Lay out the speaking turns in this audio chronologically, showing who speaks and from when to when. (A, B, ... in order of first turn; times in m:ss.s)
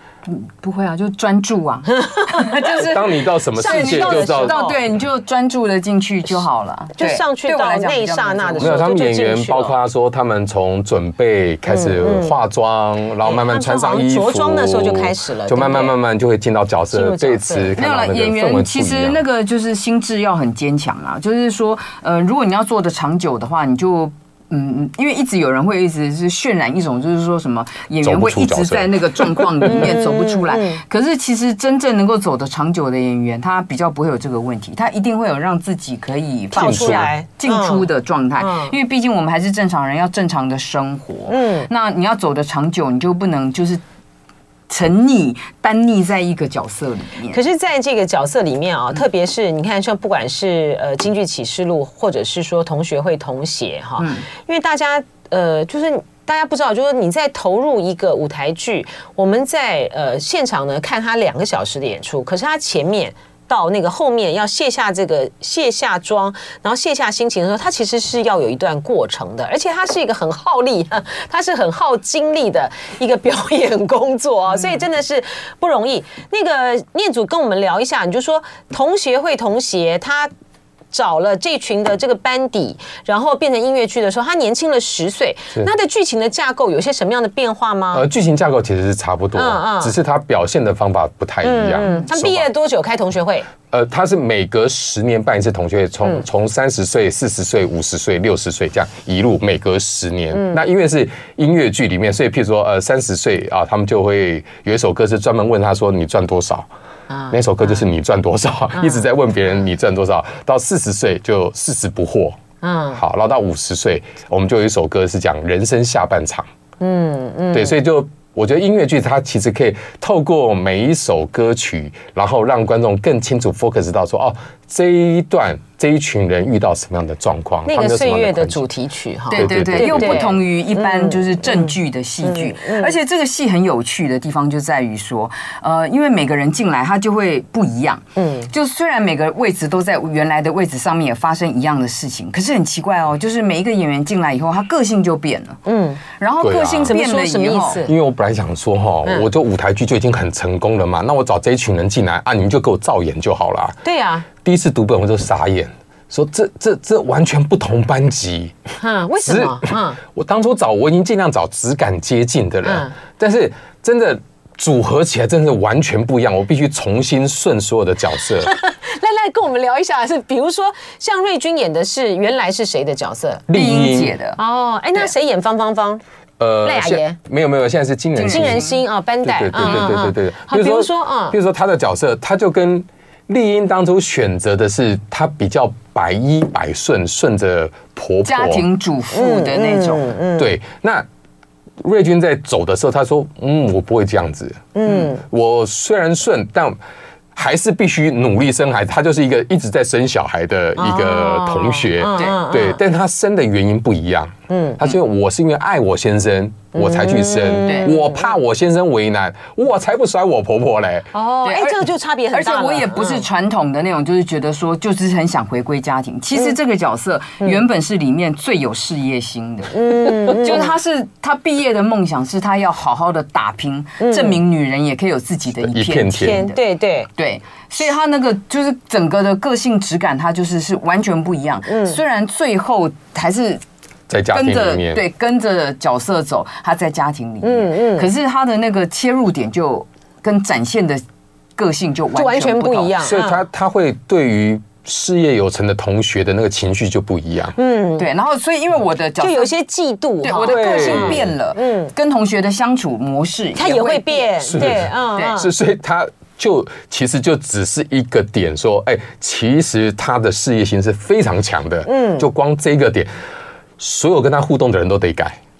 0:00.2-0:08.8 A
0:02.1-0:02.5 B
0:02.8-0:04.6 C
0:03.6-0:04.8 B
0:07.0-0:09.8 B
0:08.6-0:19.2 C
0:11.7-0:12.3 B
0:13.2-0:15.9 B
0:16.9-0:17.7 B
0:17.8-0:43.8 A
0:28.0-0:29.4 C
0:29.7-0:30.8 B
0:36.5-0:38.7 B
0:36.5-0:37.1 C
0:41.3-0:41.7 B
0:44.7-0:47.4 A
0:47.3-1:20.3 B
0:54.0-0:54.2 A
1:20.9-1:28.0 B
1:27.9-1:32.5 C
1:29.3-1:29.9 B
1:31.4-1:33.5 B
1:33.7-1:46.7 C
1:40.3-1:40.6 B
1:47.1-1:47.8 B
1:47.3-1:52.4 C
1:48.8-1:49.0 B
1:52.6-1:53.0 B
1:52.9-1:56.5 C
1:56.8-1:57.8 B
1:57.5-2:08.6 C
2:07.7-2:12.9 B
2:09.3-2:10.3 C
2:09.3-2:25.6 A
2:18.2-2:18.5 B
2:25.6-2:26.0 B
2:26.1-2:27.8 A
2:26.4-2:26.9 C
2:26.9-2:27.9 B
2:27.8-2:33.8 C
2:33.8-2:34.3 B
2:34.4-2:38.5 C
2:38.8-2:40.0 B
2:39.2-2:48.5 C
2:42.6-2:42.9 B
2:48.4-2:53.4 B
2:53.5-2:54.1 C
2:53.5-2:54.4 A
2:54.4-2:56.0 B
2:56.4-2:58.7 C
2:56.6-2:57.2 B
2:58.2-2:58.8 A
2:58.3-3:01.4 B
2:59.2-3:08.6 C
3:08.2-3:10.1 A
3:09.1-3:10.5 B
3:10.4-3:11.0 C
3:11.8-3:16.8 C
3:14.7-3:15.2 B
3:17.3-3:31.1 C
3:20.8-3:22.8 B
3:22.2-3:22.4 A
3:24.5-3:24.8 B
3:26.7-3:28.3 B
3:27.6-3:27.9 A
3:31.1-3:33.2 B
3:31.4-3:46.6 A
3:39.7-3:40.7 B
3:44.0-3:44.4 B
3:45.6-3:46.4 C
3:46.2-3:47.1 B
3:47.2-3:53.6 A
3:51.7-3:52.0 B
3:54.1-3:55.0 C
3:54.3-4:01.0 A
3:57.4-3:58.1 B
4:01.6-4:03.0 A
4:02.1-4:03.4 B
4:03.0-4:07.5 C
4:07.6-4:08.1 B
4:08.0-4:09.5 A
4:09.2-4:11.9 B
4:10.2-4:15.4 A
4:10.4-4:11.3 C
4:13.6-4:15.5 B
4:14.4-4:23.1 C
4:21.8-4:22.3 B
4:23.8-4:25.4 C